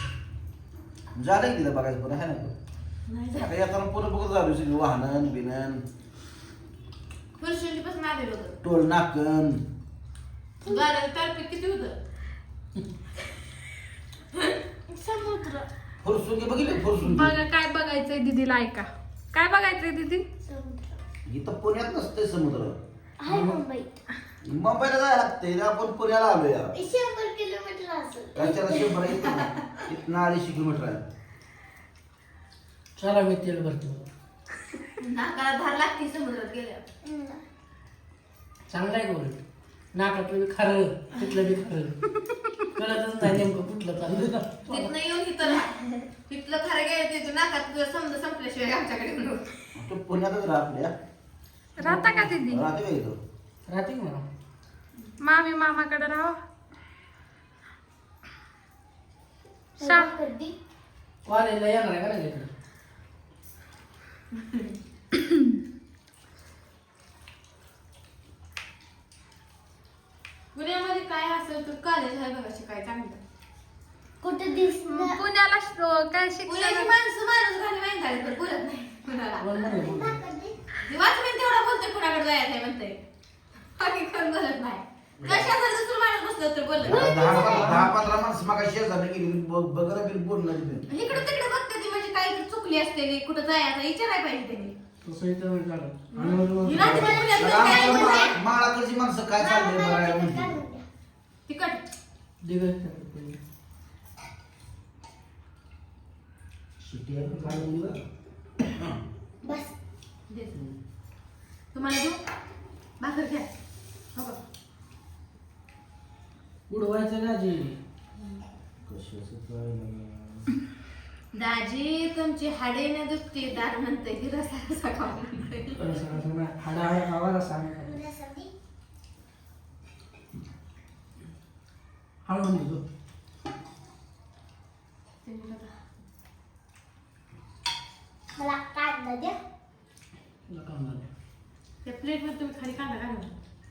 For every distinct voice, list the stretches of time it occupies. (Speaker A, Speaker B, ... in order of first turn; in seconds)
Speaker A: 1.1-2.5, 3.3-5.8, 8.6-9.6, 16.0-17.4, 21.3-22.8, 24.4-26.7, 28.4-31.1, 49.8-50.9, 52.5-53.2, 85.2-85.5, 86.8-90.9, 97.4-100.6, 106.8-108.0, 108.8-109.0, 118.8-120.5
Speaker B: 3.1-3.5, 7.4-8.6, 10.7-12.0, 35.0-36.8, 44.7-49.5, 70.5-73.2, 76.5-79.5, 80.8-83.0, 83.8-87.6, 90.9-94.8, 96.1-98.4, 101.5-101.8, 110.3-110.5, 111.7-112.2, 113.0-113.5, 121.3-125.8, 135.2-135.8, 141.8-143.3
Speaker C: 14.9-15.7, 20.4-21.0, 23.2-24.0, 26.7-29.0, 37.0-37.4, 45.5-46.1, 59.8-60.5, 74.2-75.2, 79.6-80.6, 86.8-87.9, 96.8-98.4, 99.4-100.8, 109.4-109.7, 127.8-128.5, 138.3-139.4
Speaker D: 17.0-20.3, 42.2-42.6, 51.8-52.6, 55.2-56.4, 59.8-60.1, 74.8-76.9
Speaker E: 33.0-34.1, 38.7-39.4, 39.9-42.0, 42.8-44.9, 51.8-52.3, 53.7-54.3, 61.2-62.5, 79.4-80.2, 87.4-87.9, 95.0-97.2, 102.4-103.4, 107.4-108.0, 116.7-117.8, 125.8-128.0, 132.2-132.8, 140.5-141.1